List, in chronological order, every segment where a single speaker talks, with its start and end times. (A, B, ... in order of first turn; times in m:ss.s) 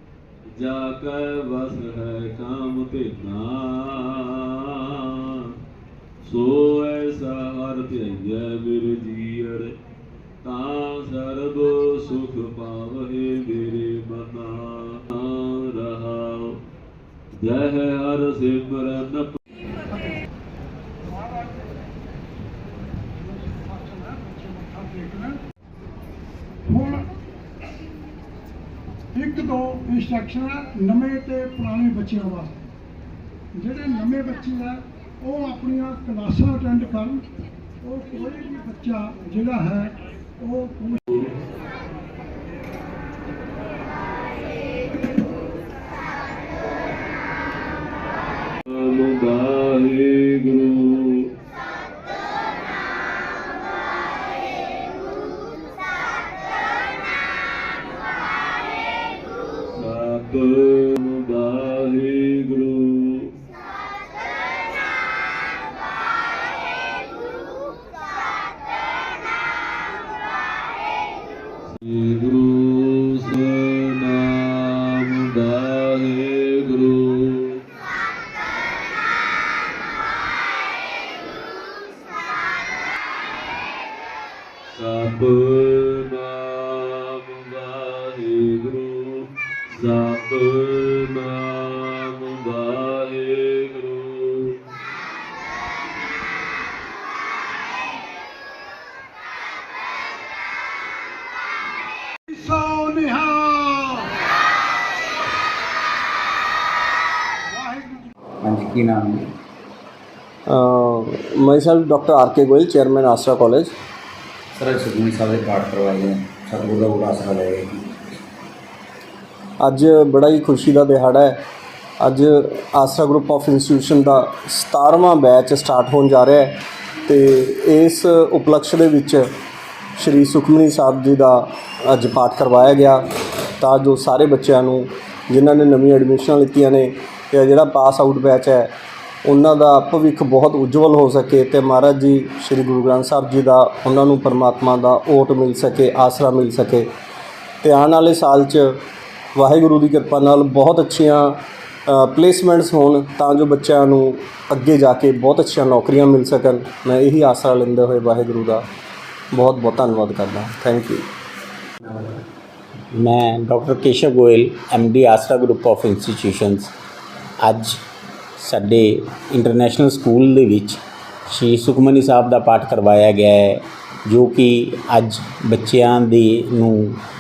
0:00.5-0:05.5 A
0:06.2-0:09.7 A
0:10.4-0:16.6 A
0:17.3-0:19.4 A
0:23.3-0:25.3 B
0:26.7-0:27.0 B
0:29.2-0:32.5 B
0:33.6-0:37.2 B
0:37.8-0:39.9 B
0:40.4-0:40.8 B
0:48.7-0:51.3 A
0:59.7-1:03.4 A
1:11.7-1:17.6 A
1:24.7-1:34.6 A
1:42.4-1:44.0 B
1:47.6-1:47.9 B
1:48.4-1:49.2 C
1:50.5-1:53.7 D
1:54.6-1:57.7 C
1:59.6-2:01.4 D
2:02.0-2:09.3 D
2:10.0-2:13.0 D
2:13.6-2:18.7 D
2:19.2-2:26.9 D
2:27.6-2:28.8 D
2:29.3-2:38.6 D
2:39.3-2:41.0 D
2:42.9-2:46.7 E
2:47.4-2:47.8 E
2:48.4-2:57.0 E